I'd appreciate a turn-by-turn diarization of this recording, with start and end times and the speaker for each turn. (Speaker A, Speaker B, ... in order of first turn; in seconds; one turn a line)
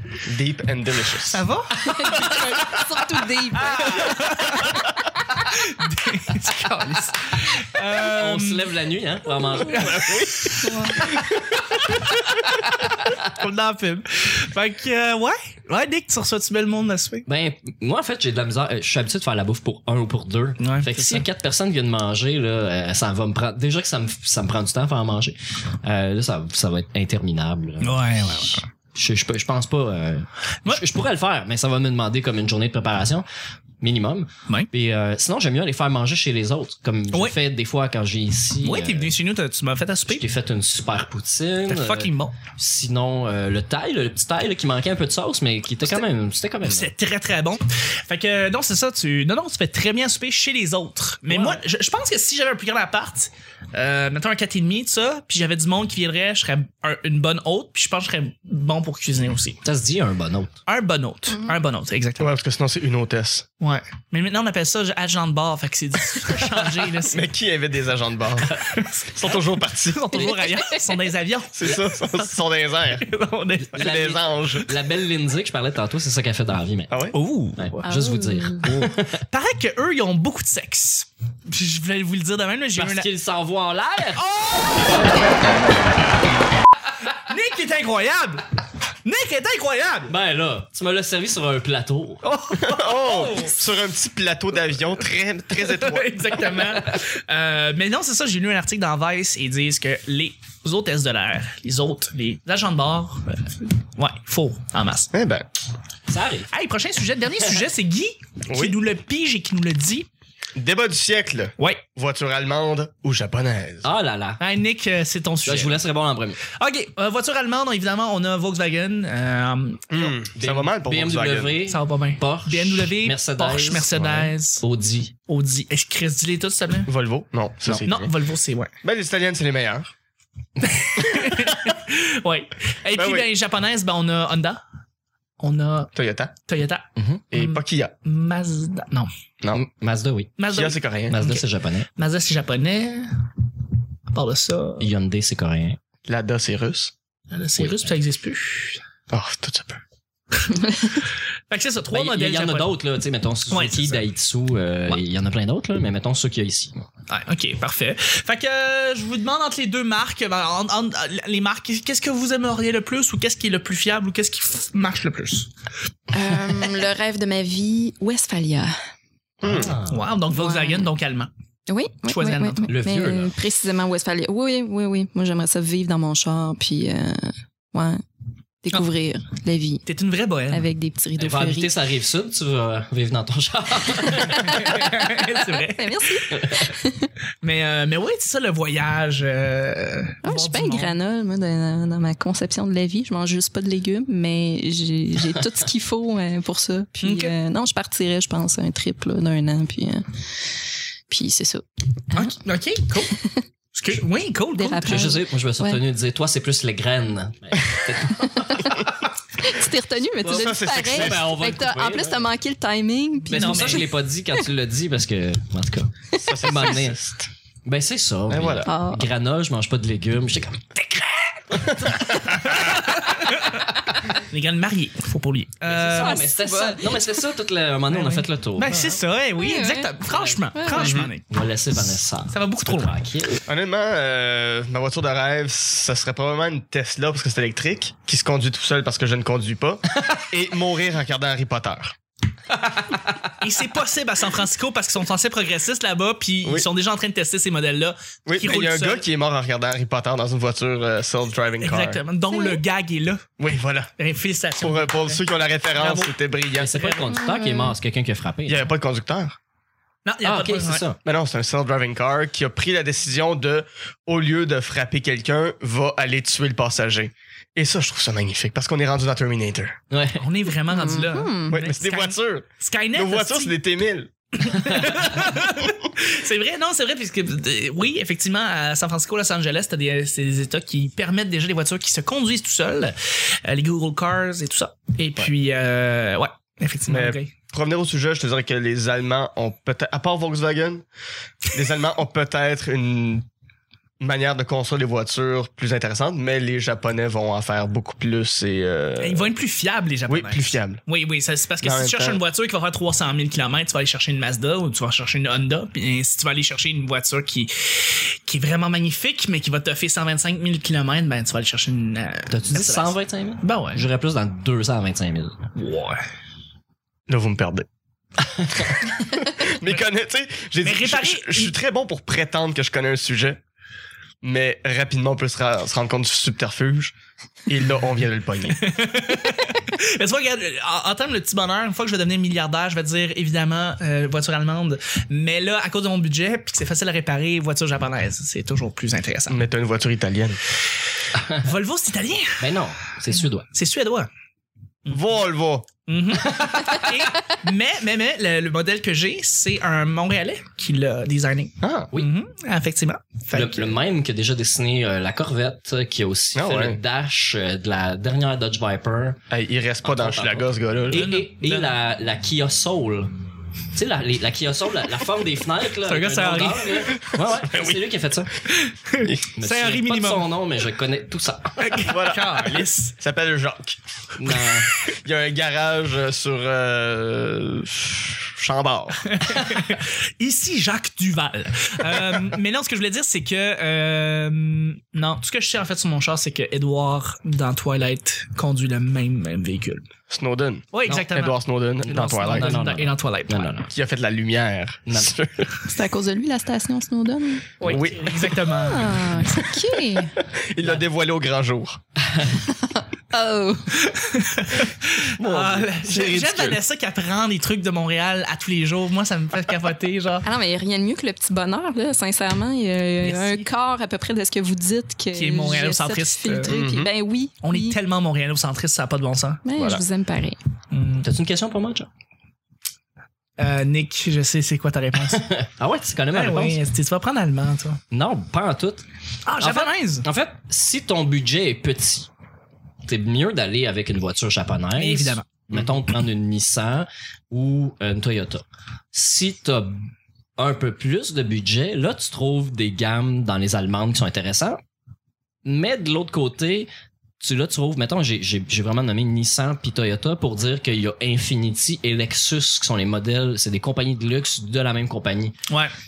Speaker A: 0.2-1.4
Speaker B: 1.3-2.1
Speaker C: 1.8-4.3
Speaker B: 3.6-4.8
Speaker B: 5.5-8.6
Speaker D: 7.9-10.2
Speaker B: 9.6-17.2
Speaker A: 9.9-10.5
Speaker C: 10.6-11.1
Speaker D: 17.3-33.2
Speaker B: 20.6-21.2
Speaker B: 27.8-28.6
Speaker D: 33.8-39.1
Speaker B: 38.6-40.2
Speaker D: 40.1-46.9
Speaker B: 41.7-42.4
Speaker B: 46.6-59.6
Speaker D: 51.3-51.6
Speaker D: 59.6-60.5
Speaker B: 60.7-62.3
Speaker A: 62.2-63.5
Speaker B: 63.6-67.3
Speaker A: 67.0-70.3
Speaker B: 68.7-72.3
Speaker C: 70.2-70.7
Speaker A: 71.5-73.0
Speaker B: 73.0-74.0
Speaker D: 73.7-77.0
Speaker A: 73.8-74.7
Speaker A: 76.9-77.2
Speaker B: 77.1-77.8
Speaker D: 77.6-79.2
Speaker C: 77.8-78.8
Speaker B: 79.2-83.1
Speaker D: 82.8-84.2
Speaker B: 84.2-85.2
Speaker B: 87.2-88.5
Speaker B: 89.0-90.1
Speaker D: 90.1-92.2
Speaker B: 92.2-93.6
Speaker A: 92.5-96.4
Speaker B: 95.6-105.1
Speaker A: 105.1-105.5
Speaker D: 106.1-106.5
Speaker B: 106.5-110.1
Speaker A: 108.5-108.8
Speaker A: 110.5-113.9
Speaker D: 113.8-114.4
Speaker B: 114.4-115.8
Speaker D: 115.5-116.4
Speaker B: 116.6-120.0
Speaker A: 119.9-121.6
Speaker D: 120.4-125.1
Speaker B: 121.7-124.6
Speaker B: 125.3-126.9
Speaker A: 126.9-128.1
Speaker B: 127.8-128.7
Speaker A: 128.8-129.9
Speaker B: 130.6-134.6
Speaker A: 131.2-131.5
Speaker A: 132.9-133.3
Speaker B: 135.4-135.9
Speaker A: 135.9-136.3
Speaker B: 136.4-139.1
Speaker D: 137.0-137.2
Speaker A: 137.3-137.9
Speaker D: 139.5-140.3
Speaker B: 140.4-141.4
Speaker A: 140.5-141.2
Speaker D: 141.1-141.9
Speaker B: 141.9-143.2
Speaker B: 144.1-144.9
Speaker D: 144.8-145.8
Speaker A: 146.1-146.9
Speaker B: 147.3-148.8
Speaker D: 147.6-147.8
Speaker A: 149.1-149.8
Speaker B: 151.5-152.7
Speaker D: 151.9-156.8
Speaker B: 153.5-154.0
Speaker B: 157.1-165.5
Speaker C: 166.1-168.8
Speaker A: 169.4-169.7
Speaker D: 169.4-170.0
Speaker B: 169.9-171.3
Speaker C: 170.3-170.9
Speaker C: 171.7-178.0
Speaker B: 172.1-172.7
Speaker D: 172.7-173.3
Speaker C: 178.6-179.8
Speaker B: 179.8-180.7
Speaker C: 180.5-181.7
Speaker D: 181.2-184.7
Speaker C: 184.0-187.1
Speaker B: 184.4-186.3
Speaker D: 186.4-186.7
Speaker B: 187.4-190.9
Speaker C: 190.2-200.1
Speaker B: 197.0-197.3
Speaker C: 201.1-202.4
Speaker B: 202.1-203.2
Speaker C: 203.1-203.4
Speaker B: 203.7-205.1
Speaker C: 204.6-205.8
Speaker D: 204.8-208.9
Speaker C: 208.1-213.9
Speaker A: 210.2-211.3
Speaker D: 210.2-212.3
Speaker B: 213.3-213.8
Speaker D: 213.3-217.0
Speaker C: 216.1-216.4
Speaker A: 216.2-217.3
Speaker D: 217.7-222.8
Speaker A: 218.3-218.7
Speaker C: 218.6-219.0
Speaker A: 221.6-222.0
Speaker B: 222.4-226.2
Speaker D: 225.7-229.0
Speaker C: 225.9-227.0
Speaker B: 227.9-231.2
Speaker C: 229.4-229.9
Speaker D: 230.1-233.4
Speaker C: 230.5-230.9
Speaker A: 230.8-231.1
Speaker B: 232.3-232.9
Speaker A: 233.5-242.0
Speaker B: 243.4-249.0
Speaker A: 248.2-252.0
Speaker B: 251.6-253.2
Speaker C: 252.3-252.6
Speaker A: 253.4-253.9
Speaker B: 254.0-255.2
Speaker A: 254.6-256.8
Speaker B: 255.7-256.1
Speaker D: 256.6-258.7
Speaker B: 256.7-257.1
Speaker C: 257.1-257.7
Speaker A: 258.4-259.4
Speaker B: 260.0-260.8
Speaker D: 260.2-261.0
Speaker A: 261.0-269.8
Speaker D: 269.9-270.2
Speaker B: 270.2-273.5
Speaker C: 270.7-271.6
Speaker A: 271.5-274.1
Speaker B: 274.4-287.3
Speaker A: 286.9-290.8
Speaker A: 291.5-293.3
Speaker A: 294.0-299.3
Speaker B: 299.0-313.8
Speaker A: 300.1-300.8
Speaker A: 301.6-302.2
Speaker D: 312.3-315.4
Speaker B: 315.5-316.0
Speaker A: 317.1-317.7
Speaker A: 318.5-323.4
Speaker B: 320.6-321.5
Speaker A: 324.2-326.9
Speaker A: 327.5-328.6
Speaker B: 328.5-339.4
Speaker A: 339.3-340.4
Speaker B: 341.3-342.5
Speaker D: 342.4-343.5
Speaker B: 343.1-344.1
Speaker A: 344.9-345.7
Speaker B: 345.9-353.7
Speaker A: 351.6-351.9
Speaker D: 353.3-359.2
Speaker A: 356.3-356.8
Speaker A: 359.3-361.1
Speaker D: 359.8-363.1
Speaker B: 360.9-361.7
Speaker D: 363.7-368.3
Speaker B: 365.9-366.9
Speaker A: 367.1-367.8
Speaker B: 368.5-370.2
Speaker D: 369.4-371.8
Speaker B: 371.6-372.9
Speaker A: 371.9-379.1
Speaker D: 374.2-374.7
Speaker B: 379.1-389.9
Speaker A: 390.1-392.6
Speaker B: 390.7-393.5
Speaker D: 391.8-393.7
Speaker A: 393.7-395.6
Speaker D: 394.9-395.2
Speaker C: 395.7-397.5
Speaker B: 397.6-399.0
Speaker A: 397.6-398.4
Speaker C: 398.5-400.1
Speaker A: 400.3-401.8
Speaker C: 402.5-403.8
Speaker B: 403.8-410.2
Speaker A: 405.1-406.6
Speaker C: 410.2-417.8
Speaker B: 413.0-413.5
Speaker B: 415.1-416.6
Speaker A: 416.5-416.9
Speaker B: 417.4-419.4
Speaker C: 419.4-420.4
Speaker A: 419.5-419.8
Speaker B: 420.7-421.1
Speaker D: 421.0-421.9
Speaker B: 423.4-425.3
Speaker D: 425.1-426.6
Speaker B: 426.1-427.8
Speaker D: 427.9-428.9
Speaker B: 429.2-430.1
Speaker D: 429.4-432.1
Speaker D: 432.9-444.6
Speaker B: 434.8-435.3
Speaker D: 445.4-446.7
Speaker D: 447.2-455.4
Speaker B: 455.5-455.7